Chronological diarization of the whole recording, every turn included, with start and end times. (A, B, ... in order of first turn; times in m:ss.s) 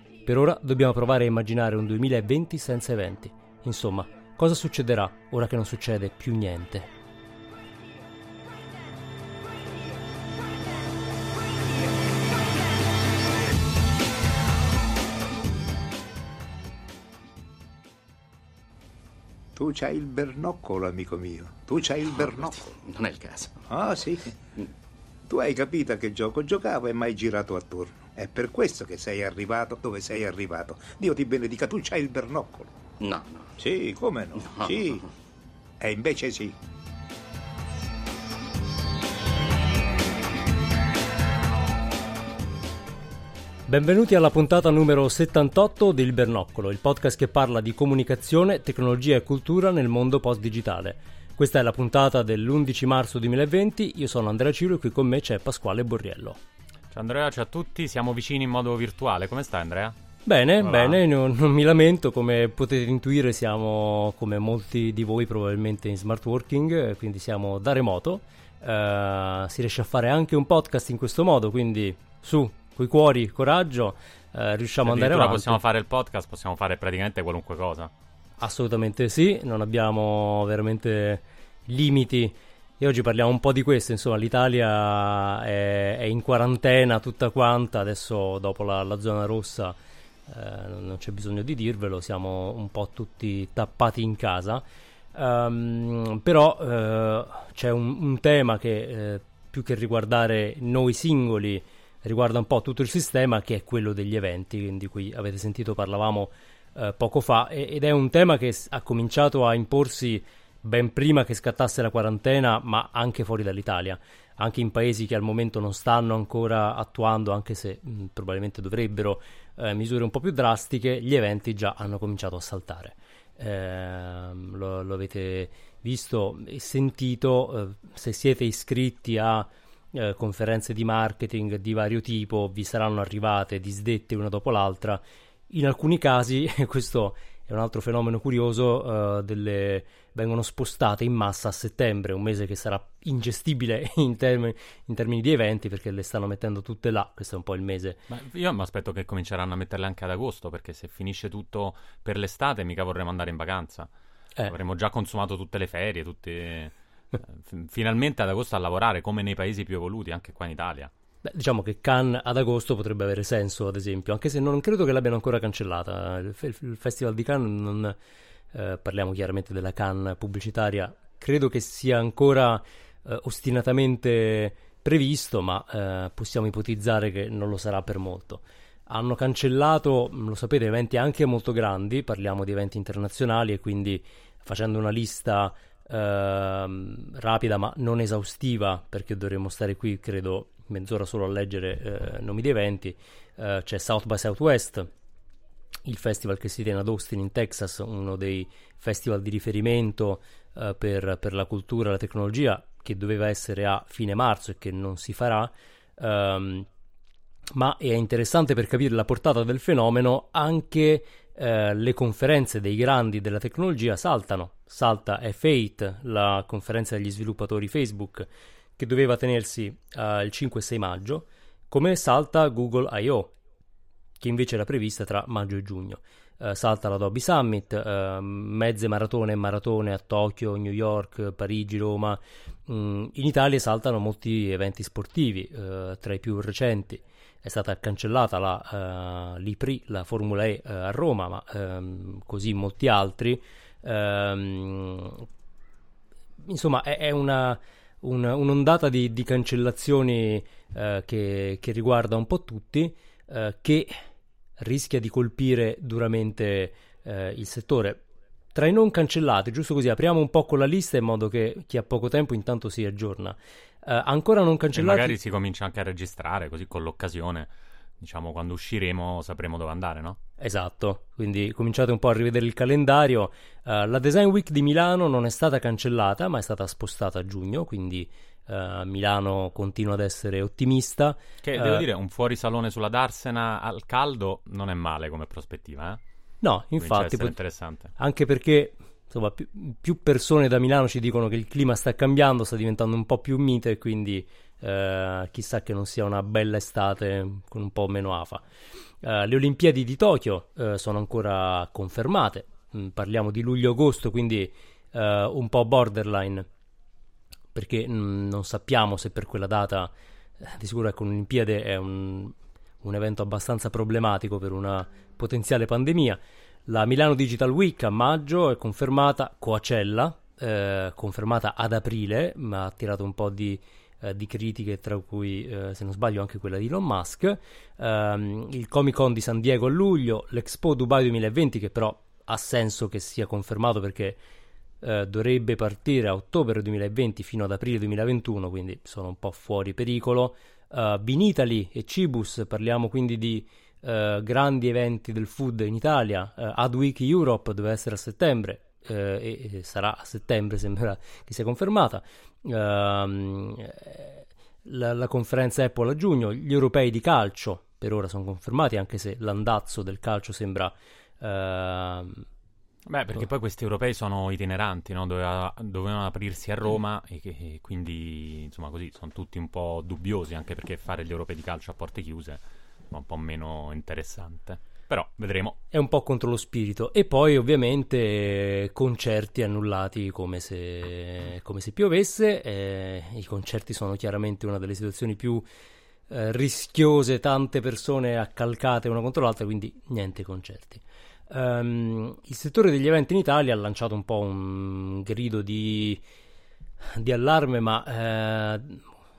0:00.2-0:06.9 A
0:19.6-0:22.6 B
0:22.1-0:23.6 C
0:23.7-0:24.4 B
0:25.3-0:32.7 B
0:33.0-0:33.5 C
0:33.6-0:35.0 B
0:34.4-0:35.0 C
0:35.8-0:36.5 B
0:43.7-0:56.4 A
0:56.9-0:59.9 D
1:00.2-1:15.6 A
1:00.6-1:01.0 D
1:14.8-1:17.9 D
1:18.4-2:28.0 A
2:28.1-2:33.9 D
2:34.4-2:40.9 D
2:41.2-2:48.0 A
2:48.5-3:14.9 A
3:15.8-3:26.7 A
3:27.5-3:43.3 A
3:44.2-4:05.3 A
4:06.4-4:14.0 A
4:14.6-4:25.2 A
4:24.7-4:30.2 D
4:30.4-4:41.8 A
4:41.4-4:46.0 D
4:46.4-4:47.4 A
4:46.8-4:47.9 D
4:48.0-4:58.4 A
4:59.0-5:06.4 A
5:07.5-5:34.2 A
5:34.8-6:02.2 A
6:02.8-6:12.4 D
6:12.9-6:15.6 D
6:15.7-6:25.4 A
6:26.1-6:36.0 A
6:36.9-6:38.8 A